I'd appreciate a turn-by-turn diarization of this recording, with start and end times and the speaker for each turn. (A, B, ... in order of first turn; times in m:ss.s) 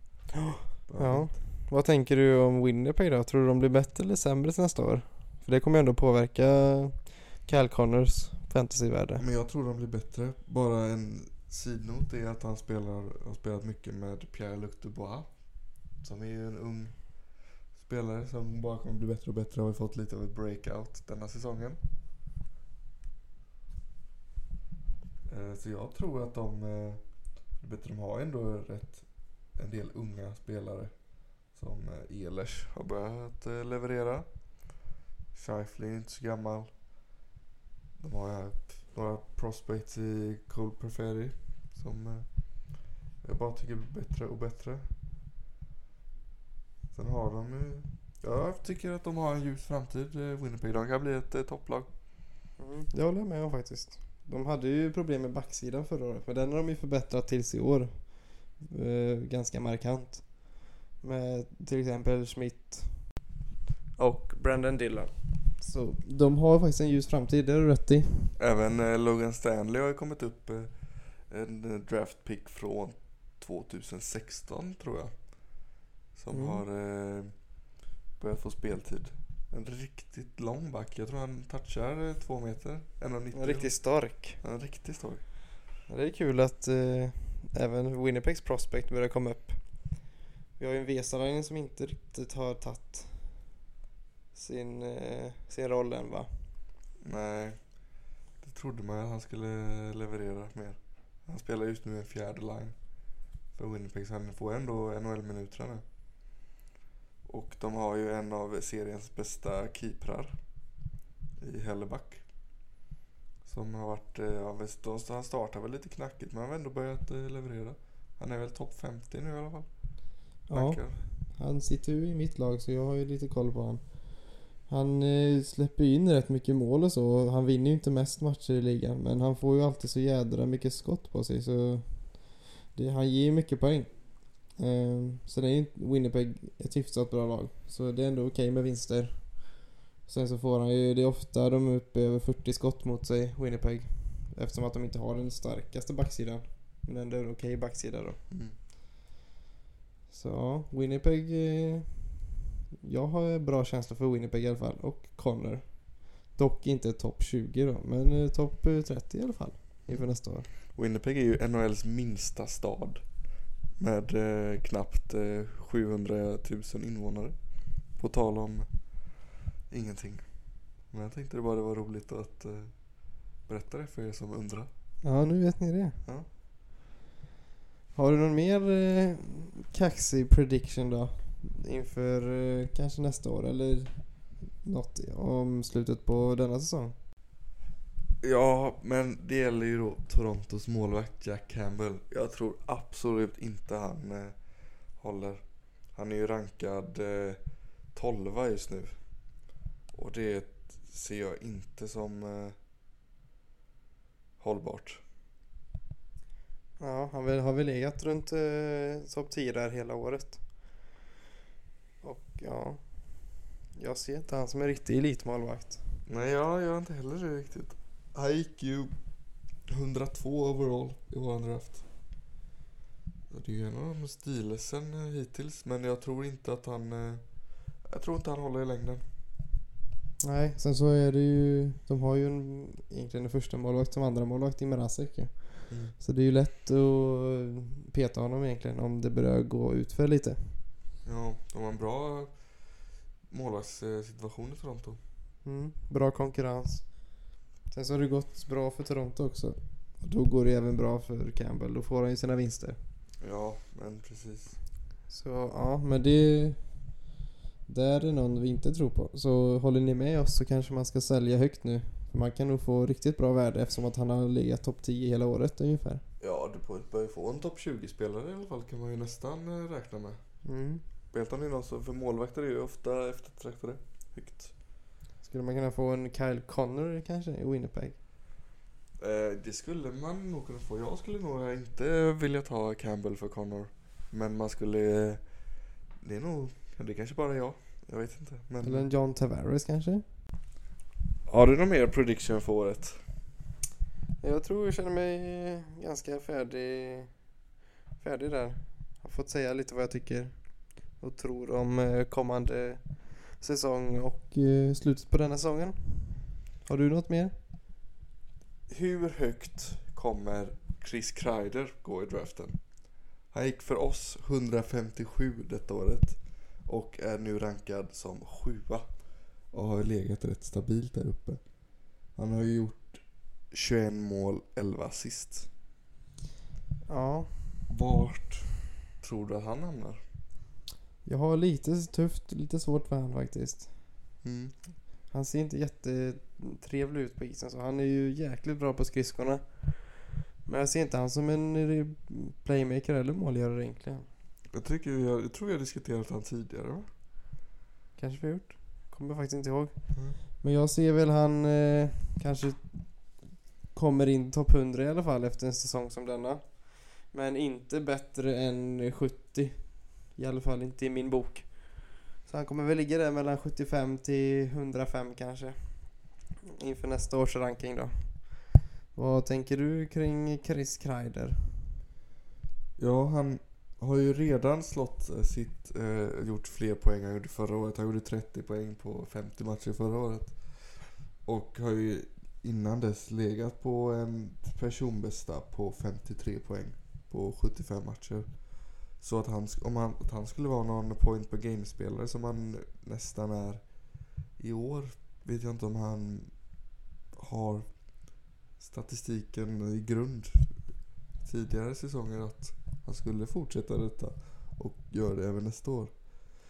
0:00.4-0:09.2 A
0:00.9-0:01.4 B
0:09.2-0:21.8 B
0:25.3-0:34.8 B
0:35.3-0:36.7 B
0:38.0-0:44.9 B
0:46.9-0:51.9 B
0:52.6-1:03.2 A
1:04.0-1:08.4 A
1:08.4-1:17.6 B
1:16.3-1:16.6 A
1:18.2-1:25.3 B
1:23.3-1:24.4 A
1:25.9-1:33.6 A
1:34.3-1:36.5 A
1:37.0-1:37.9 B
1:38.4-1:42.8 B
1:43.5-1:45.8 B
1:47.2-1:50.4 B
1:51.4-1:52.3 B
1:53.4-1:59.7 B
2:00.5-2:28.2 A
2:00.5-2:01.0 B
2:28.3-2:28.6 B
2:30.1-2:32.2 A
2:32.8-2:40.5 A
2:39.9-2:43.2 B
2:43.8-2:48.7 B
2:49.7-2:50.3 B
2:50.8-2:52.9 B
2:53.4-2:54.7 B
2:55.0-2:56.0 A
2:57.9-3:07.0 A
3:08.2-3:17.4 B
3:17.9-3:19.0 B
3:19.9-3:22.6 B
3:24.4-3:25.0 B
3:26.8-3:30.9 A
3:32.0-3:36.0 A
3:36.1-3:39.1 B
3:39.7-3:41.9 B
3:43.3-3:49.0 B
3:50.2-4:00.6 A
3:55.7-3:55.9 B
4:01.0-4:05.0 B
4:05.4-4:12.8 A
4:13.2-4:14.6 B
4:15.1-4:16.9 A
4:17.7-4:26.0 A
4:26.2-4:30.4 B
4:30.4-4:30.8 A
4:31.1-4:34.6 B
4:35.2-4:38.0 A
4:39.0-4:45.4 B
4:46.0-4:48.9 B
4:48.6-4:50.0 A
4:51.3-4:53.0 B
4:54.2-4:57.4 A
4:58.0-5:07.3 A
5:08.7-5:21.5 B
5:22.1-5:25.5 B
5:26.9-5:27.6 A
5:27.7-5:30.0 B
5:31.0-5:34.0 A
5:34.2-5:34.7 B
5:35.1-5:44.1 A
5:44.5-5:46.9 B
5:48.0-6:11.7 A
6:12.8-6:46.1 B